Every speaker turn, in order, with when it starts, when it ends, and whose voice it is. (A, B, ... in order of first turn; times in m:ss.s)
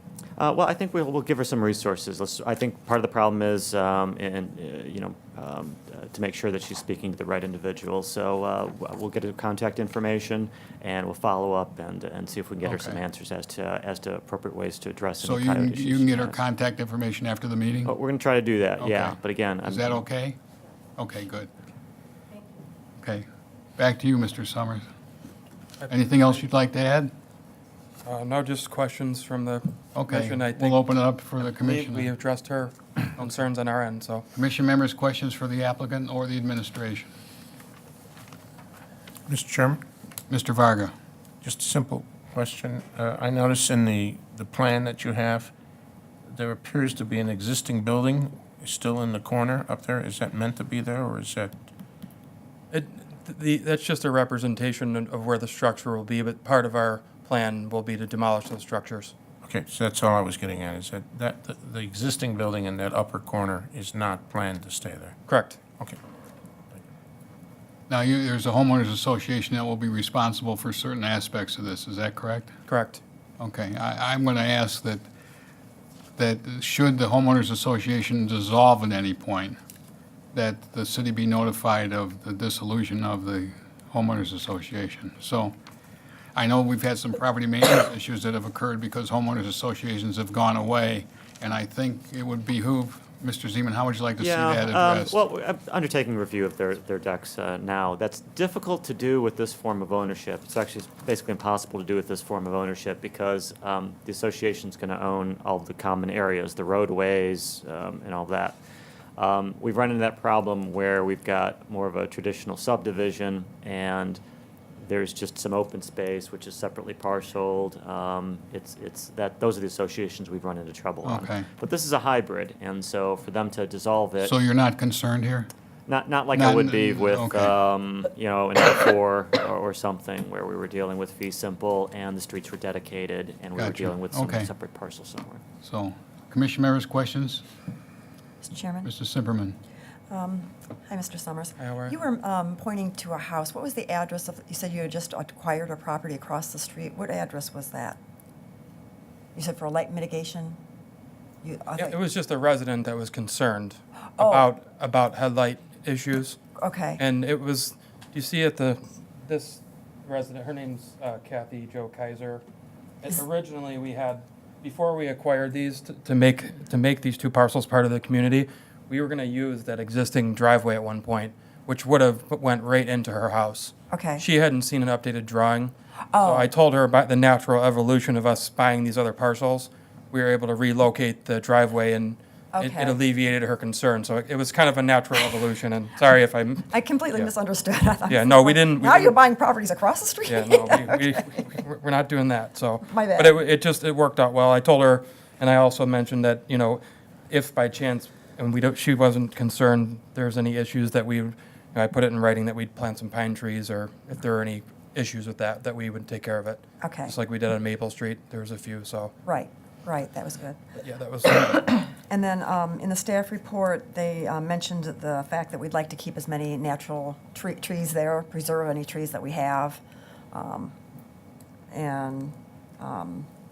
0:00.4-0:16.4 A
0:12.6-0:13.0 B
0:15.2-0:17.9 B
0:17.8-0:20.0 A
0:18.8-0:20.4 B
0:21.0-0:21.5 B
0:23.0-0:23.2 B
0:23.8-0:24.8 B
0:25.8-0:26.1 C
0:25.9-0:27.1 B
0:28.0-0:30.8 C
0:29.9-0:32.1 B
0:31.4-0:34.2 C
0:34.3-0:37.1 B
0:39.3-0:39.8 D
0:40.3-0:40.9 B
0:41.4-0:45.5 D
0:46.3-0:51.6 D
0:52.7-0:59.1 C
0:59.4-1:06.0 D
1:05.3-1:05.6 C
1:07.9-1:12.5 B
1:12.7-1:13.0 C
1:13.4-1:15.1 B
1:16.2-1:19.6 B
1:20.3-1:25.6 B
1:26.3-1:35.2 B
1:34.2-1:48.6 A
1:49.2-1:54.2 A
1:54.8-2:04.4 A
2:01.0-2:01.4 B
2:04.2-2:05.5 B
2:05.9-2:15.4 A
2:06.3-2:07.5 B
2:13.6-2:14.5 B
2:15.6-2:17.4 B
2:18.4-2:18.9 E
2:18.8-2:19.6 B
2:20.1-2:28.0 E
2:21.6-2:22.0 C
2:29.3-2:30.6 E
2:31.4-2:32.0 E
2:31.8-2:36.4 C
2:34.2-2:34.5 E
2:36.6-2:37.0 E
2:37.0-2:42.4 C
2:43.0-3:07.3 C
2:53.9-2:54.3 E
2:56.1-2:56.5 E
3:02.5-3:03.0 E
3:06.7-3:11.5 E
3:08.1-3:09.2 C
3:10.3-3:29.1 C
3:12.9-3:13.5 E
3:26.8-3:27.2 E
3:29.2-3:30.6 E
3:30.8-3:31.8 C
3:31.6-3:40.7 E
3:41.7-3:43.3 E